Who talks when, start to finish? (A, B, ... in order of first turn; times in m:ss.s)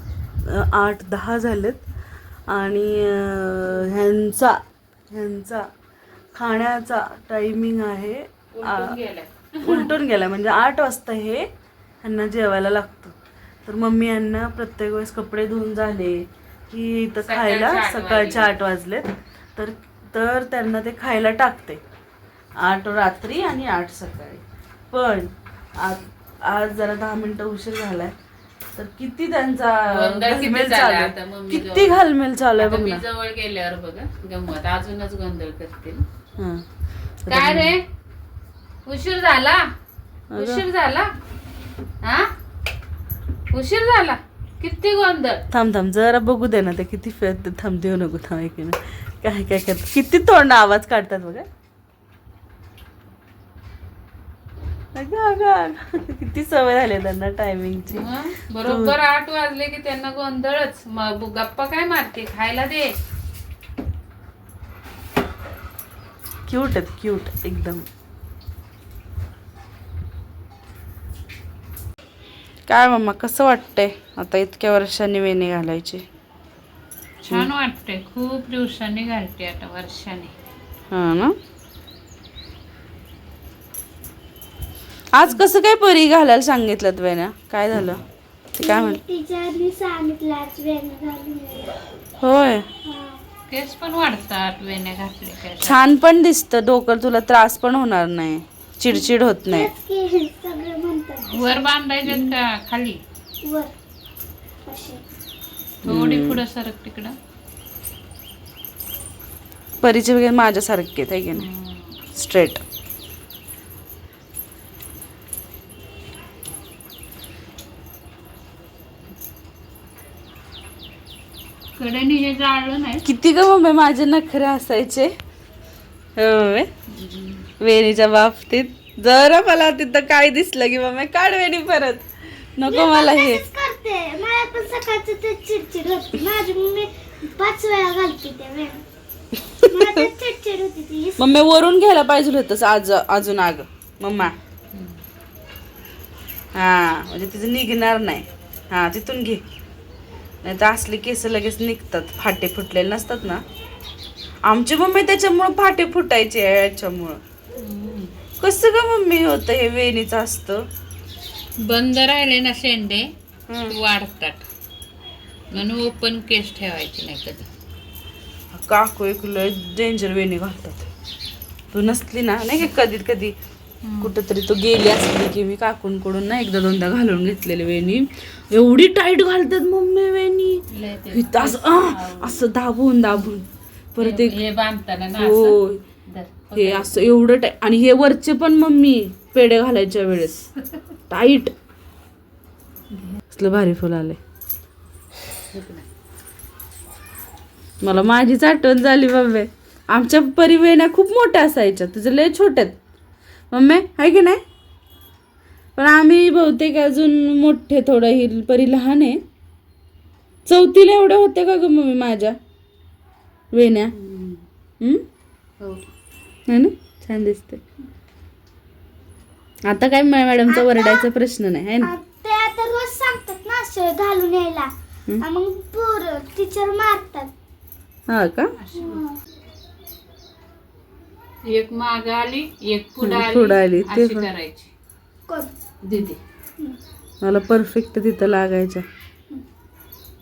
0:00.5-0:01.8 A
0:02.5-0:04.6 A
0:05.1-0:05.7 A
0:06.3-0:09.0 A
0:08.5-0:09.9 B
0:09.6-0:11.5 A
0:12.0-0:13.1 A
0:13.6-0:21.8 A
0:17.2-0:18.6 B
0:22.6-0:28.1 A
0:28.8-0:33.0 A
0:29.9-0:32.0 B
0:32.6-0:36.0 B
0:36.4-0:36.6 A
0:37.2-0:37.7 A
0:37.3-0:37.8 B
0:38.9-0:39.7 B
0:40.3-0:40.6 A
0:40.3-0:41.1 B
0:42.0-0:42.3 B
0:43.5-0:45.4 B
0:45.5-0:51.5 A
0:55.0-0:58.1 A
0:57.9-1:03.0 B
0:58.6-0:59.0 A
1:06.5-1:07.8 A
1:12.7-1:16.0 A
1:17.2-1:20.3 B
1:20.9-1:21.4 A
1:25.1-1:28.0 A
1:28.6-1:29.0 A
1:28.6-1:31.8 C
1:32.2-1:32.7 A
1:32.9-1:33.2 C
1:33.5-1:35.8 B
1:35.6-1:39.7 A
1:39.5-1:41.4 C
1:41.2-1:43.0 B
1:43.4-1:43.7 C
1:44.7-1:45.0 C
1:45.8-1:47.2 B
1:45.9-1:46.4 A
1:49.8-1:51.5 A
1:51.4-1:52.1 B
1:52.2-1:52.6 A
2:01.8-2:03.0 B
2:03.0-2:05.1 A
2:06.2-2:06.7 A
2:06.9-2:07.5 B
2:07.6-2:13.4 A
2:12.7-2:18.8 C
2:19.7-2:21.2 C
2:21.2-2:24.4 A
2:26.6-2:29.4 A
2:30.4-2:33.4 A
2:34.5-2:37.2 A
2:37.6-2:38.2 B
2:38.4-2:40.6 A
2:41.6-2:43.1 B
2:43.5-2:43.8 A
2:43.7-2:44.5 B
2:45.5-2:47.5 B
2:48.5-2:50.9 A
2:51.7-2:53.3 A
2:53.8-2:54.2 B
2:54.0-3:04.4 A
3:00.7-3:02.5 B
3:04.0-3:07.0 B
3:05.2-3:05.8 A
3:06.5-3:10.4 A
3:11.1-3:11.5 A
3:12.9-3:13.2 B
3:13.3-3:14.2 A
3:15.5-3:15.9 B
3:17.8-3:22.8 A
3:23.5-3:24.4 A
3:25.8-3:29.2 A
3:30.5-3:32.4 A
3:33.5-3:33.9 A
3:33.9-3:34.4 B
3:35.6-3:35.9 B
3:36.5-3:37.6 A
3:39.7-3:41.9 A
3:40.5-3:41.0 C
3:41.8-3:44.7 C
3:45.2-3:47.3 C
3:48.1-3:48.5 A
3:48.6-3:49.0 B
3:48.8-3:49.1 C
3:51.4-3:54.7 B
3:53.0-3:54.3 A
3:55.8-3:56.2 B
3:57.2-3:58.8 A